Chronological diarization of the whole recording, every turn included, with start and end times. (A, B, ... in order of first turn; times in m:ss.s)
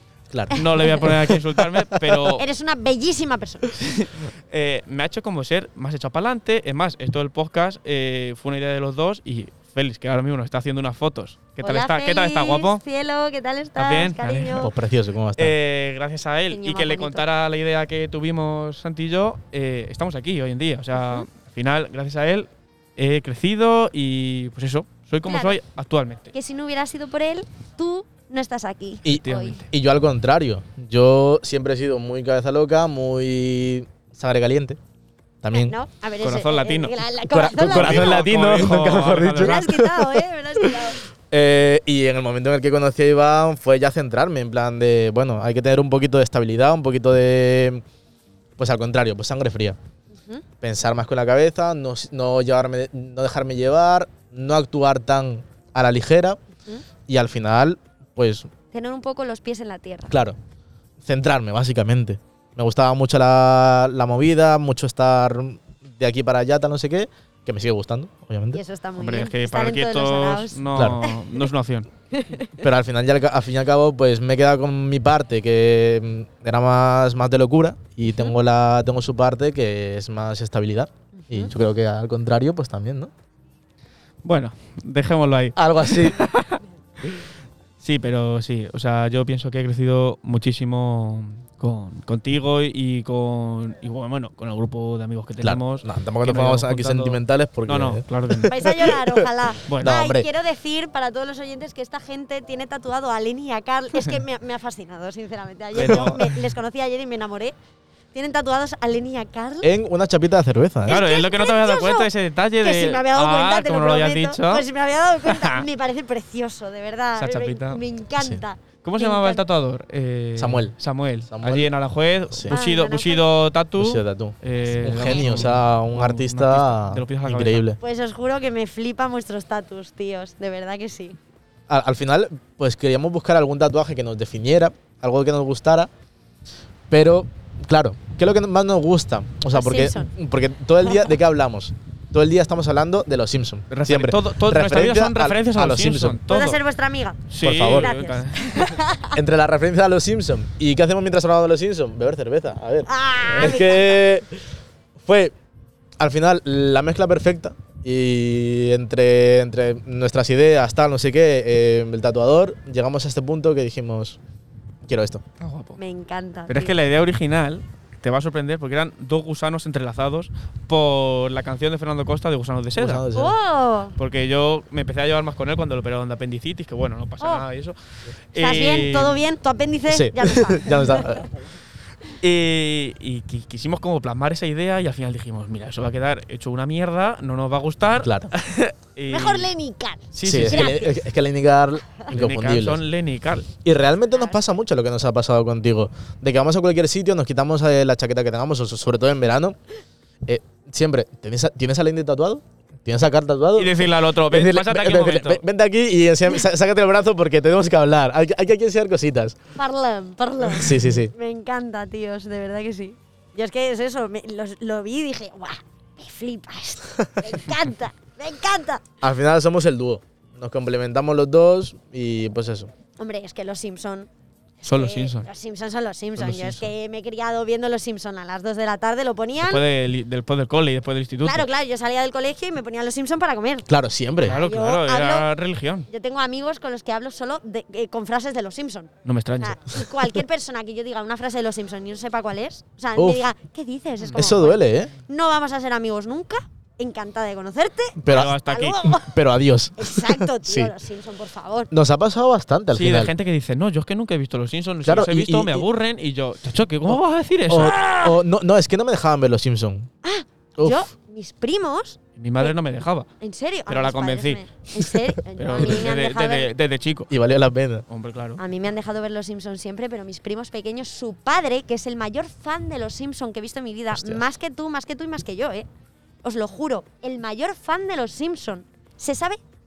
0:00.3-0:01.4 A
0:00.5-0:02.4 B
0:00.5-0:01.1 C
0:02.4-0:03.8 C
0:03.7-0:12.8 B
0:11.6-0:14.7 C
0:13.8-0:14.7 B
0:14.6-0:15.6 A
0:15.4-0:26.3 B
0:16.5-0:17.3 C
0:21.0-0:21.3 C
0:25.3-0:25.6 C
0:26.3-0:29.6 C
0:29.0-0:34.8 A
0:29.2-0:29.7 B
0:35.4-0:35.8 A
0:35.5-0:38.3 C
0:36.2-0:37.0 B
0:37.3-0:40.1 A
0:37.6-0:39.6 B
0:39.4-0:41.0 C
0:41.3-0:47.8 A
0:48.6-0:49.8 A
0:50.2-0:50.4 C
0:50.6-0:56.4 A
0:57.1-0:58.5 A
0:58.7-1:00.2 C
1:00.1-1:00.4 A
1:01.0-1:08.6 A
1:08.5-1:11.2 C
1:09.0-1:11.9 B
1:10.7-1:11.0 A
1:12.1-1:12.6 C
1:12.6-1:23.1 A
1:21.2-1:21.5 C
1:24.2-1:27.2 B
1:25.6-1:26.2 A
1:27.8-1:38.6 B
1:35.4-1:40.3 A
1:38.5-1:47.6 C
1:39.7-1:40.0 B
1:45.7-1:46.3 B
1:45.8-1:46.2 A
1:48.1-1:49.7 C
1:49.6-1:51.0 A
1:50.9-1:52.1 C
1:50.9-1:54.7 B
1:52.6-1:59.4 C
1:55.2-1:55.6 B
1:57.2-1:57.8 B
1:58.8-2:07.7 B
2:00.4-2:00.8 A
2:01.3-2:01.7 A
2:02.5-2:03.2 C
2:03.8-2:07.8 A
2:05.2-2:05.4 C
2:07.8-2:11.2 C
2:11.7-2:15.9 A
2:16.9-2:26.2 A
2:19.5-2:20.1 C
2:23.7-2:26.6 B
2:26.3-2:29.2 C
2:27.3-2:28.8 B
2:27.4-2:27.9 A
2:29.1-2:34.4 A
2:32.9-2:34.0 C
2:35.0-2:35.3 A
2:36.0-2:44.2 A
2:44.9-2:45.2 A
2:45.4-2:45.8 B
2:45.8-2:46.7 C
2:46.5-2:53.0 B
2:52.8-2:53.4 A
2:53.1-2:54.0 C
2:54.0-2:57.8 B
2:58.3-2:59.2 B
2:58.4-3:01.0 C
2:59.9-3:01.3 A
3:02.2-3:09.5 B
3:08.0-3:08.3 A
3:09.1-3:11.0 C
3:10.1-3:10.8 B
3:10.2-3:12.8 A
3:12.1-3:13.5 B
3:13.6-3:19.6 A
3:14.1-3:14.4 C
3:20.2-3:29.4 A
3:23.6-3:25.4 B
3:29.6-3:38.8 C
3:30.5-3:31.1 A
3:39.0-3:42.7 A
3:43.0-3:44.1 C
3:44.6-3:49.6 C
3:44.6-3:45.3 B
3:46.2-3:46.7 B
3:49.4-3:51.5 B
3:51.2-3:53.7 C
3:53.7-3:54.4 A
3:54.2-3:55.3 C
3:54.2-3:55.9 B
3:55.9-4:09.1 C
3:59.0-3:59.8 B
4:03.0-4:03.2 A
4:04.0-4:04.3 B
4:04.2-4:04.9 A
4:08.0-4:08.4 A
4:08.1-4:08.9 B
4:09.0-4:10.7 A
4:09.8-4:11.7 C
4:11.7-4:13.1 A
4:12.7-4:18.2 B
4:14.8-4:15.7 A
4:17.5-4:19.9 A
4:20.0-4:22.5 C
4:20.6-4:20.8 A
4:22.2-4:23.1 B
4:23.2-4:26.5 C
4:23.7-4:24.5 B
4:25.4-4:27.1 B
4:25.6-4:25.9 A
4:27.1-4:27.9 A
4:27.9-4:28.4 B
4:28.4-4:35.7 C
4:33.9-4:34.2 A
4:36.2-4:39.4 C